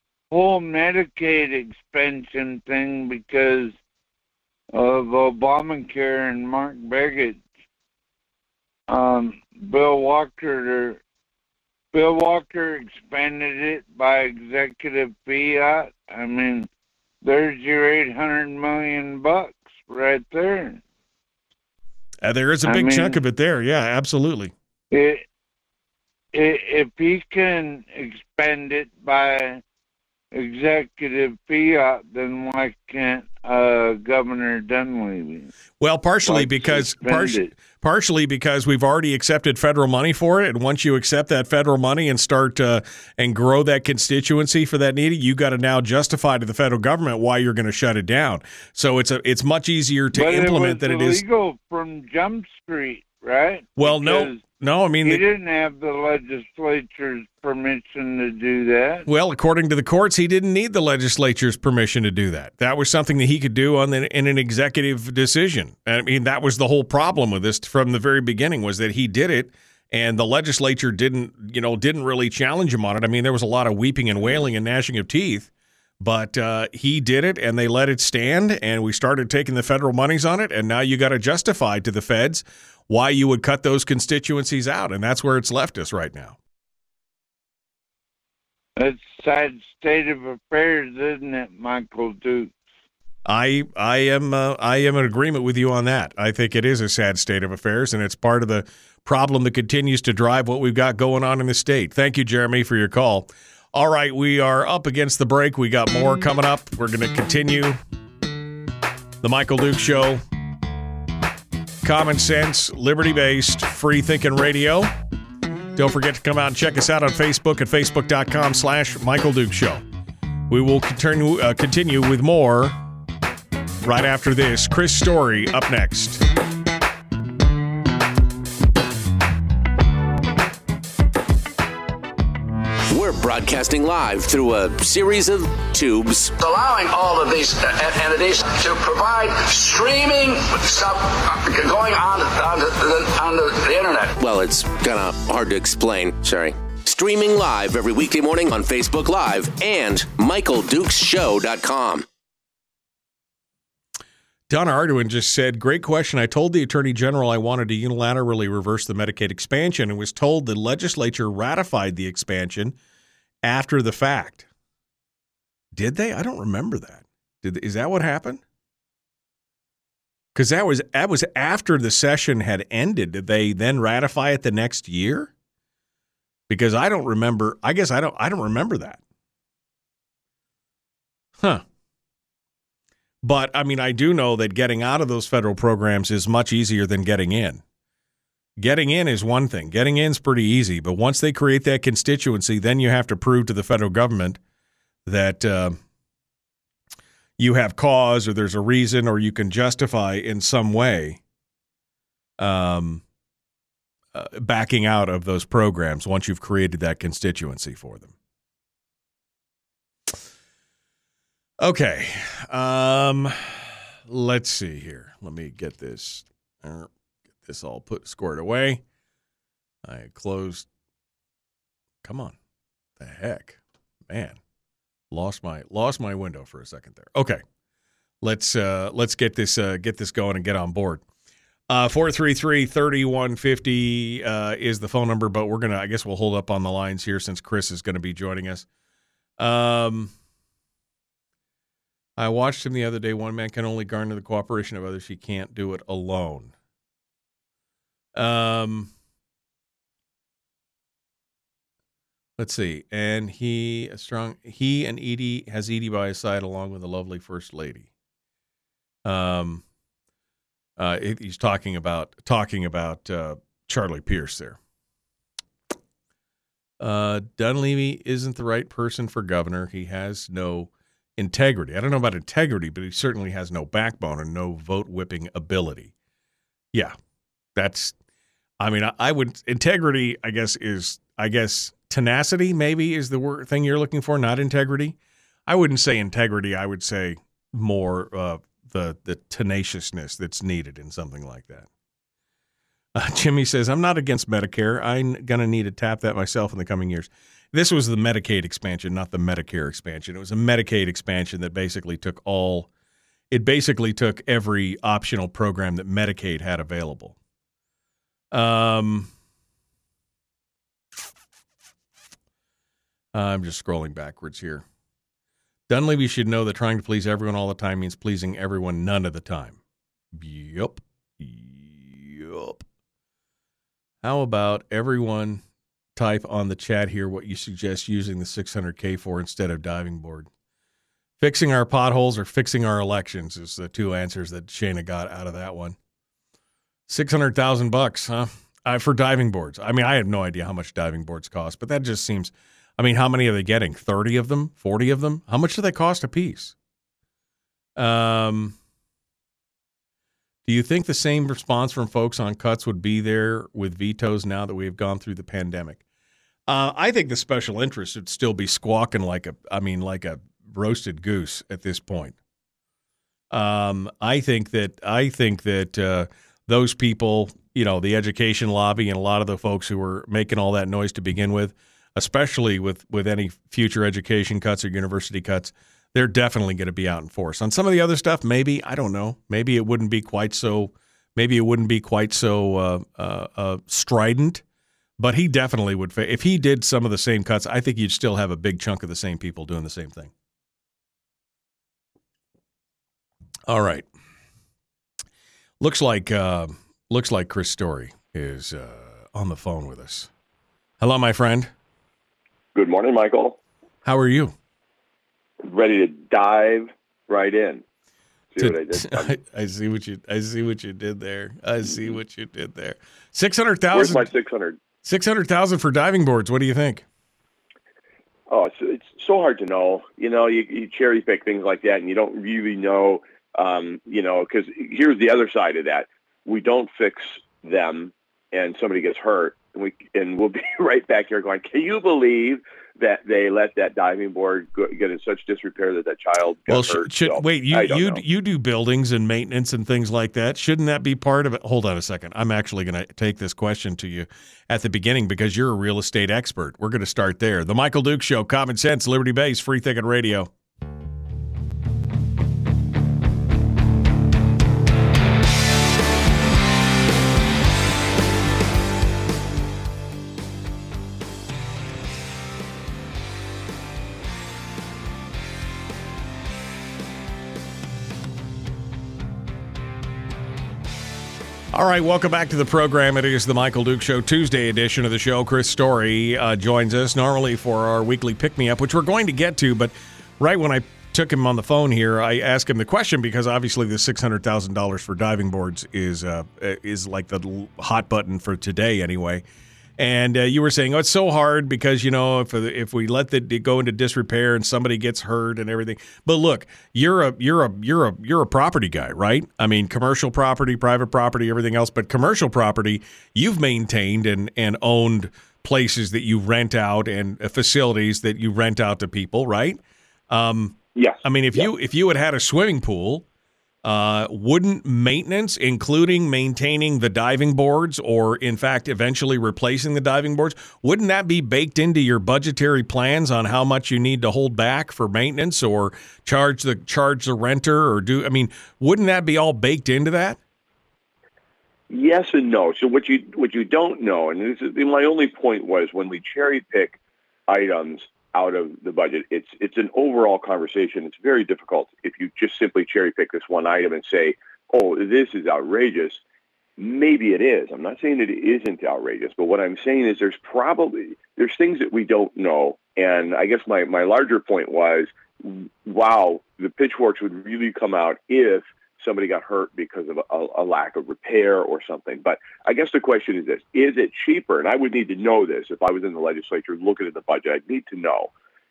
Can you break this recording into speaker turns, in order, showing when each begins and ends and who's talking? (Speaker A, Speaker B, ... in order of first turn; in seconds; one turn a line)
Speaker A: 0.3-3.8
Speaker A: 4.7-7.4
Speaker A: 8.9-11.0
Speaker A: 11.9-16.7
Speaker A: 17.2-20.8
Speaker B: 22.2-24.5
Speaker A: 22.7-23.2
Speaker A: 24.9-25.2
Speaker A: 26.3-29.6
Speaker A: 30.3-35.5
Speaker B: 35.8-51.2
Speaker A: 36.2-37.5
Speaker A: 50.1-54.4
Speaker B: 53.8-55.2
Speaker A: 55.0-59.1
Speaker B: 59.1-86.4
Speaker A: 88.8-92.5
Speaker B: 93.3-107.8
Speaker B: 109.2-110.2
Speaker B: 111.8-114.9
Speaker B: 115.8-119.8
Speaker B: 120.5-122.8
Speaker B: 123.8-126.2
Speaker C: 132.9-136.3
Speaker D: 136.4-144.2
Speaker C: 144.2-152.1
Speaker B: 154.5-162.8
Speaker B: 163.4-164.5
Speaker B: 165.7-168.4
Speaker B: 170.3-175.3
Speaker B: 176.5-179.0
Speaker B: 183.2-187.6
Speaker B: 188.6-194.4
Speaker B: 195.1-195.8
Speaker B: 197.4-201.2
Speaker B: 202.4-203.0
Speaker B: 204.1-208.1
Speaker B: 211.6-216.9
Speaker B: 217.4-218.8
Speaker B: 219.8-220.7
Speaker B: 222.0-222.3
Speaker B: 223.0-224.4
Speaker B: 225.1-227.4
Speaker B: 228.2-231.0
Speaker B: 231.7-238.7
Speaker B: 239.4-240.1
Speaker B: 242.2-246.5
Speaker B: 248.2-248.9
Speaker B: 252.4-257.9
Speaker B: 259.1-259.6
Speaker B: 260.8-264.6
Speaker B: 266.8-275.9
Speaker B: 277.6-277.9
Speaker B: 278.6-285.0
Speaker B: 285.5-291.7
Speaker B: 292.9-302.7
Speaker B: 303.3-307.1
Speaker B: 308.3-309.1
Speaker B: 313.1-314.6
Speaker B: 315.7-319.6
Speaker B: 320.1-322.6
Speaker B: 324.0-325.4
Speaker B: 326.0-330.3
Speaker B: 331.2-335.8
Speaker B: 336.9-346.6
Speaker B: 347.8-348.6
Speaker B: 350.4-355.8
Speaker B: 356.5-362.1
Speaker B: 363.3-384.4
Speaker B: 385.0-390.1
Speaker B: 393.5-393.9
Speaker B: 395.6-400.1
Speaker B: 400.8-401.5
Speaker E: 402.5-403.4
Speaker B: 403.9-404.4
Speaker E: 405.4-407.6
Speaker E: 408.3-409.2
Speaker B: 408.4-414.1
Speaker E: 413.7-414.6
Speaker B: 414.8-416.9
Speaker E: 418.3-438.0
Speaker B: 436.5-450.3
Speaker B: 471.5-489.2
Speaker B: 489.8-513.0
Speaker E: 510.8-511.5
Speaker B: 513.6-530.2
Speaker E: 531.7-546.0
Speaker E: 546.6-568.1